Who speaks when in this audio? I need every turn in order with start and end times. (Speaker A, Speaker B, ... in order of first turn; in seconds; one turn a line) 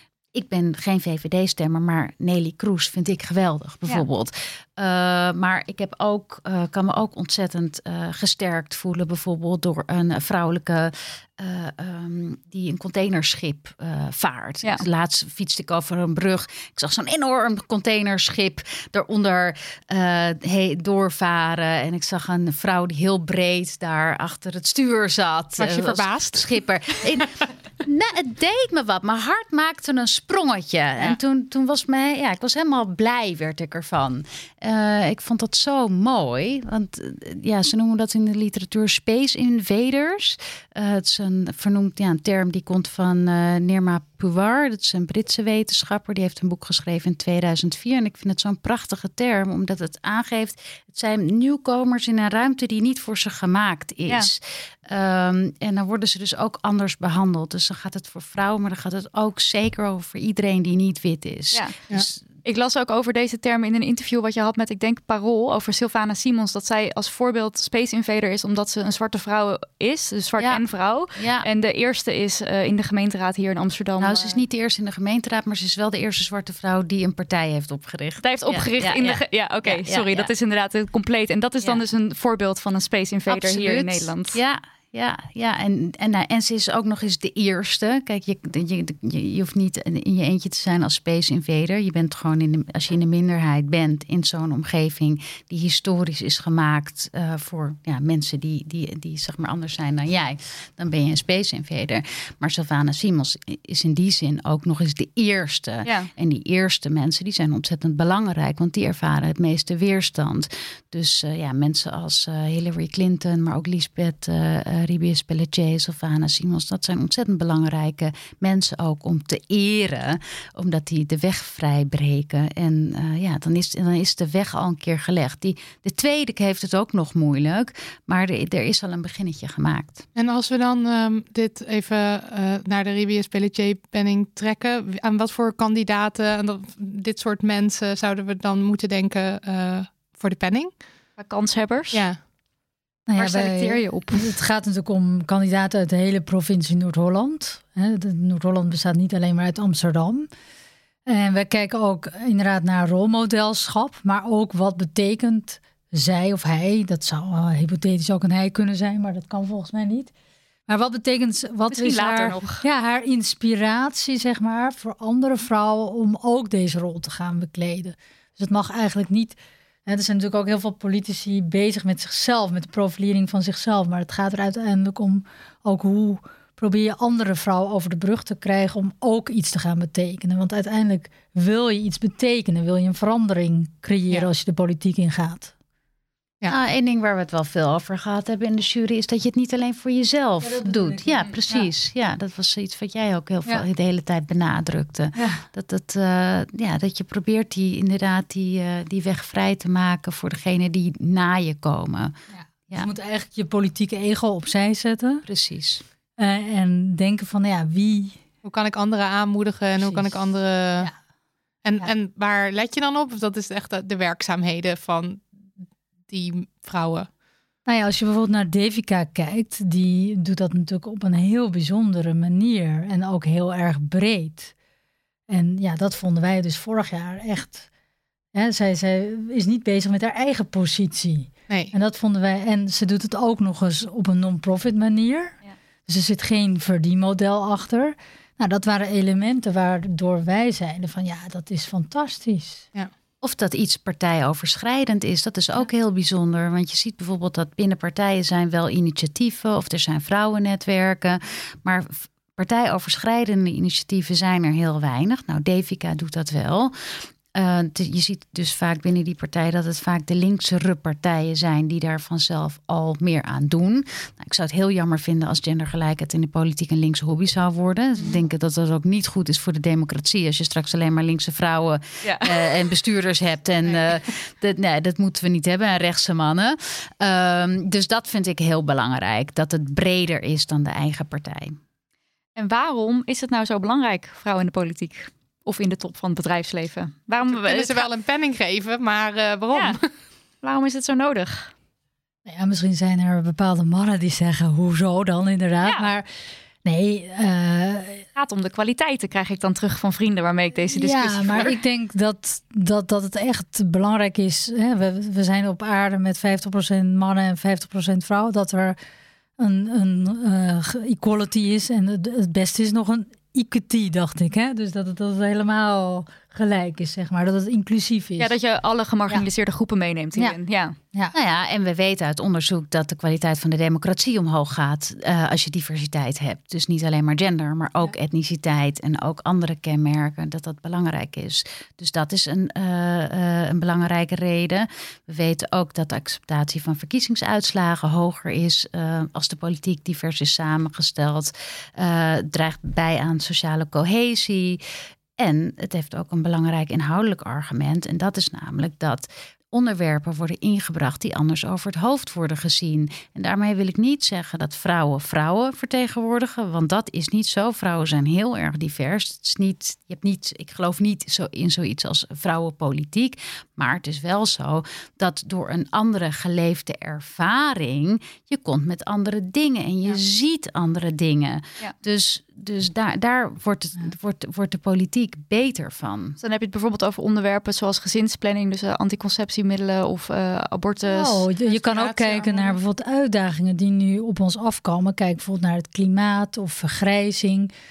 Speaker A: 0.3-62.2
Speaker B: 25.6-26.5
Speaker C: 62.4-74.4
Speaker A: 70.4-70.6
Speaker A: 71.1-71.5
Speaker A: 74.0-80.3
Speaker C: 78.2-84.4
Speaker A: 83.3-130.0
Speaker B: 130.2-140.8
Speaker C: 141.2-142.0
Speaker B: 141.9-142.2
Speaker D: 143.1-150.3
Speaker C: 143.2-144.3
Speaker D: 151.1-160.1
Speaker D: 160.7-185.5
Speaker C: 161.7-162.6
Speaker A: 186.5-202.1
Speaker D: 190.4-191.7
Speaker D: 195.2-195.4
Speaker D: 202.3-205.2
Speaker A: 205.2-205.8
Speaker D: 206.2-208.2
Speaker B: 208.4-210.9
Speaker D: 209.8-210.2
Speaker B: 211.6-215.2
Speaker B: 216.1-217.1
Speaker D: 217.7-224.5
Speaker D: 225.3-227.7
Speaker D: 228.3-235.3
Speaker D: 235.9-242.7
Speaker A: 243.2-256.7
Speaker A: 257.3-281.6
Speaker C: 272.0-272.5
Speaker C: 282.4-287.9
Speaker B: 287.2-289.9
Speaker C: 289.5-289.8
Speaker C: 290.4-291.5
Speaker D: 292.3-296.1
Speaker C: 295.6-295.9
Speaker D: 296.6-298.0
Speaker C: 298.1-301.5
Speaker D: 300.7-308.8
Speaker D: 309.4-318.3
Speaker C: 318.2-320.8
Speaker A: 321.1-344.6
Speaker A: 345.2-376.2
Speaker C: 376.2-381.2
Speaker D: 380.9-387.5
Speaker B: 381.4-382.6